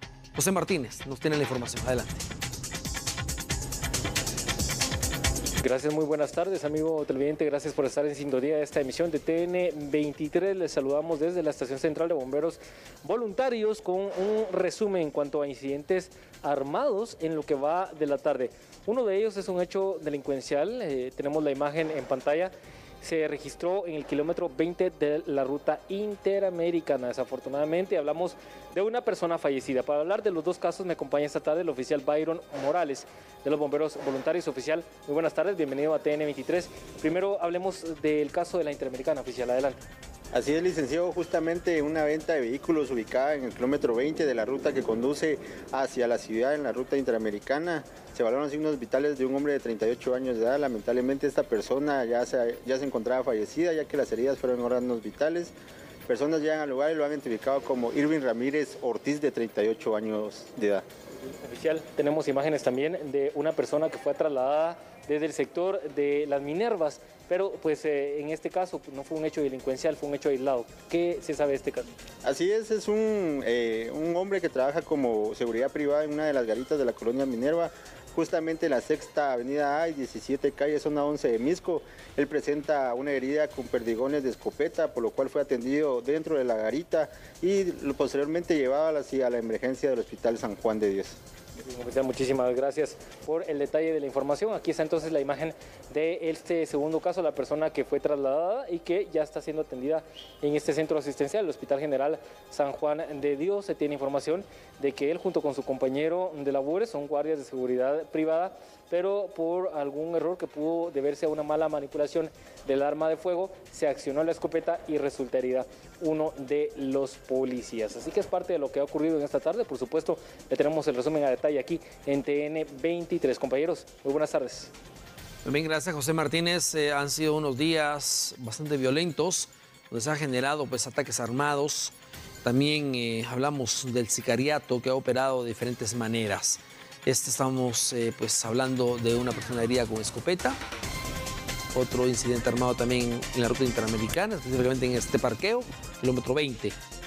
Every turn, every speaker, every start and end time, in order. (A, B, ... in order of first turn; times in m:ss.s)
0:00.3-0:02.2 A
0:05.6-0:39.8 B
0:40.3-0:55.5 C
0:56.1-1:00.8 C
1:01.4-1:11.9 B
1:12.2-1:31.2 C
1:31.6-2:04.7 B
2:05.4-2:20.6 A
2:21.7-2:26.8 A